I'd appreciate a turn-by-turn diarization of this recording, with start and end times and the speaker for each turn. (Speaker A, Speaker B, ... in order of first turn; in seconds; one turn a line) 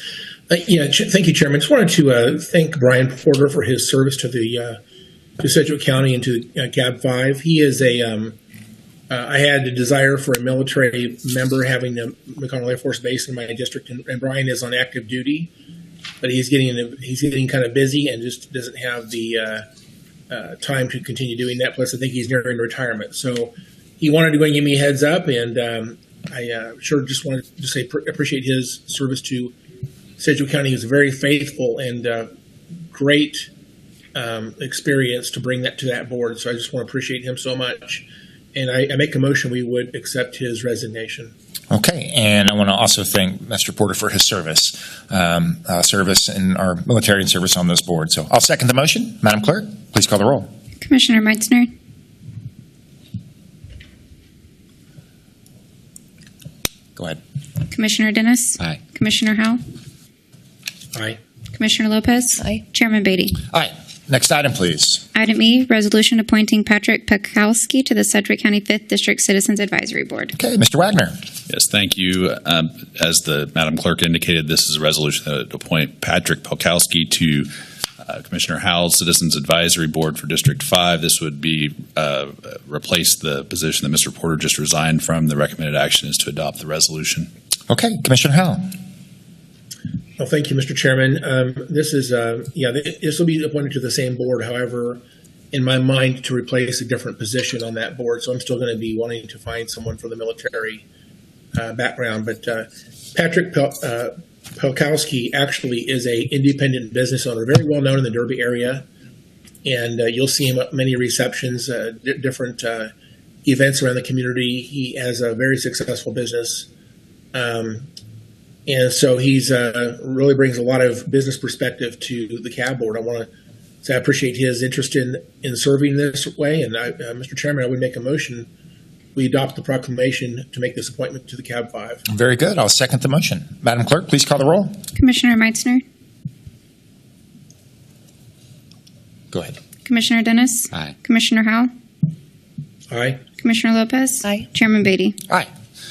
Speaker A: 0.5-4.8
Speaker A: 5.4-8.4
Speaker A: 9.1-15.5
Speaker A: 16.2-19.6
Speaker A: 20.3-29.6
Speaker A: 30.2-32.3
Speaker A: 32.9-33.5
Speaker A: 34.1-41.3
Speaker B: 41.7-50.5
Speaker C: 50.8-51.7
Speaker C: 57.7-59.6
Speaker A: 60.9-61.2
Speaker C: 61.5-63.4
Speaker B: 63.5-65.0
Speaker C: 65.1-70.3
Speaker B: 70.3-71.2
Speaker D: 71.5-77.5
Speaker D: 78.0-87.3
Speaker B: 87.7-88.7
Speaker A: 90.2-100.9
Speaker A: 101.5-108.9
Speaker A: 109.6-112.9
Speaker A: 113.5-116.7
Speaker A: 117.3-117.9
Speaker A: 118.7-123.3
Speaker A: 123.8-128.5
Speaker A: 129.2-132.0
Speaker B: 132.1-134.8
Speaker C: 134.9-135.8
Speaker C: 139.9-141.7
Speaker A: 142.9-143.2
Speaker C: 143.4-145.2